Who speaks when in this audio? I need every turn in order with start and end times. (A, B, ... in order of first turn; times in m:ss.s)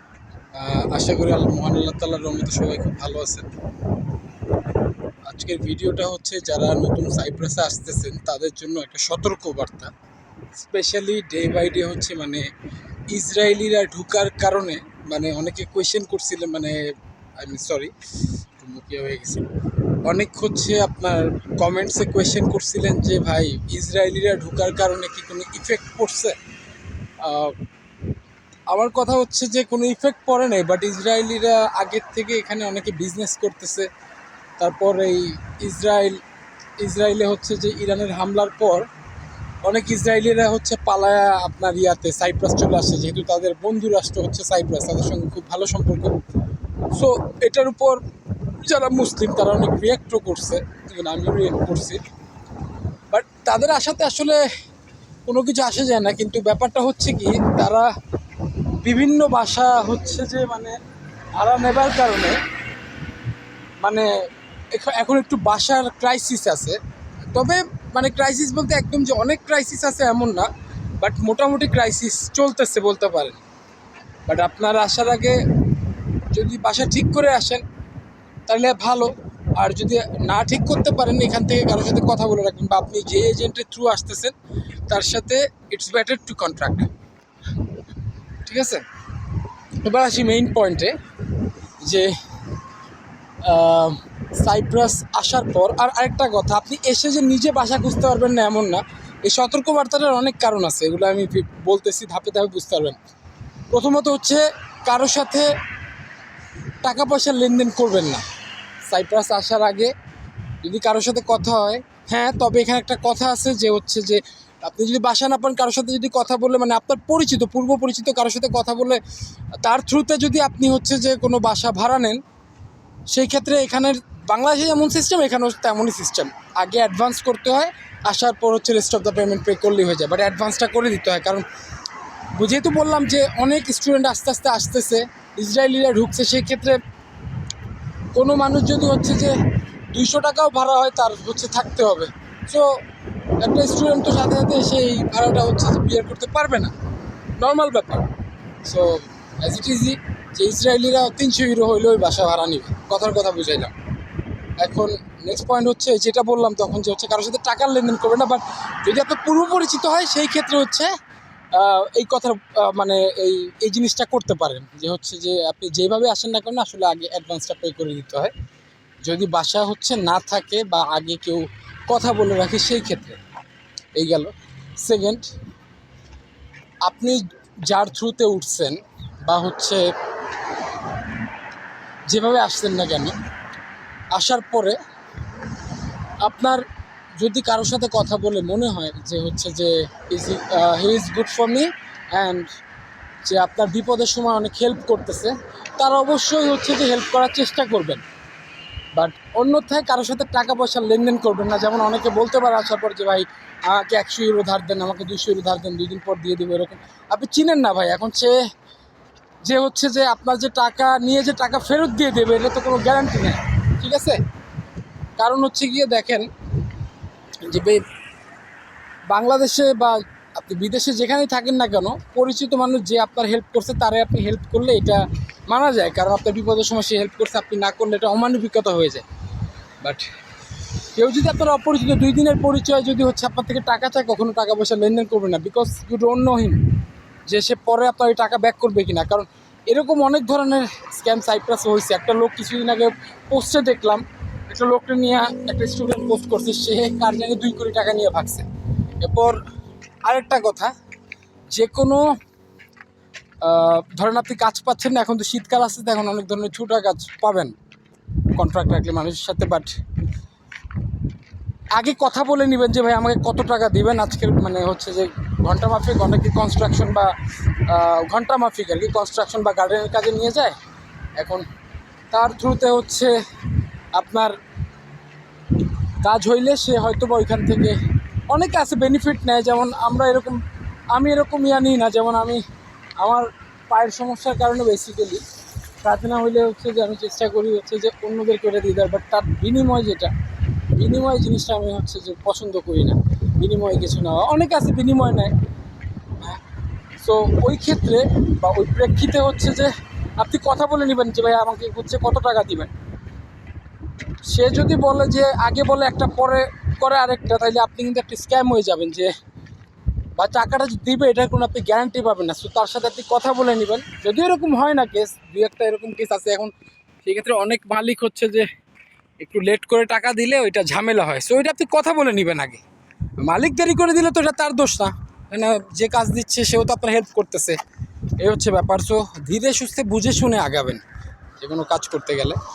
0:00.5-0:03.5 A
0:05.2-0:09.9 A
0:10.6-0:12.5 A
0:13.1-0:17.9 A
0:18.6-0:19.5 A
0:20.0-0:26.4 A
0:27.2-0:27.6 A
0:28.7-0:33.9 A
0:34.6-0:36.2 A
0:36.8-0:38.9 A
0:39.6-0:46.2 A
0:46.9-0:52.0 A
0:53.1-0:54.4 A
0:55.2-0:57.9 A
0:58.8-1:00.8 A
1:01.3-1:02.4 A
1:03.8-1:04.1 A
1:04.7-1:13.4 A
1:14.3-1:15.4 A
1:16.3-1:17.6 A
1:18.5-1:24.3 A
1:24.9-1:26.9 A
1:28.4-1:28.8 A
1:29.8-1:30.9 A
1:31.8-1:32.1 A
1:33.4-1:43.0 A
1:43.7-1:45.5 A
1:46.8-1:48.2 A
1:48.8-1:49.9 A
1:50.6-1:59.0 A
1:59.6-2:02.2 A
2:03.1-2:11.4 A
2:12.3-2:16.8 A
2:18.1-2:19.4 A
2:19.9-2:22.8 A
2:23.4-2:26.7 A
2:27.4-2:28.1 A
2:28.6-2:33.7 A
2:34.6-2:40.9 A
2:41.5-2:48.3 A
2:49.0-2:53.2 A
2:54.0-2:55.3 A
2:56.8-2:59.8 A
3:02.1-3:03.2 A
3:04.1-3:04.8 A
3:06.2-3:06.6 A
3:07.2-3:12.5 A
3:13.2-3:18.0 A
3:18.9-3:28.3 A
3:29.4-3:34.2 A
3:35.2-3:36.3 A
3:37.4-3:37.8 A
3:39.1-3:49.0 A
3:49.8-3:50.1 A
3:50.9-3:56.7 A
3:57.3-4:08.5 A
4:09.0-4:09.4 A
4:10.0-4:10.7 A
4:11.5-4:12.0 A
4:13.4-4:17.5 A
4:18.3-4:19.7 A
4:21.8-4:27.1 A
4:27.6-4:30.5 A
4:31.2-4:31.4 A
4:32.1-4:33.1 A
4:33.9-4:34.4 A
4:36.0-4:37.8 A
4:38.3-4:42.4 A
4:43.0-4:45.2 A
4:45.8-4:50.1 A
4:50.7-4:55.3 A
4:57.0-5:02.7 A
5:04.3-5:09.1 A
5:10.2-5:16.5 A
5:17.0-5:18.5 A
5:19.2-5:22.6 A
5:23.2-5:27.6 A
5:28.2-5:30.8 A
5:31.4-5:32.4 A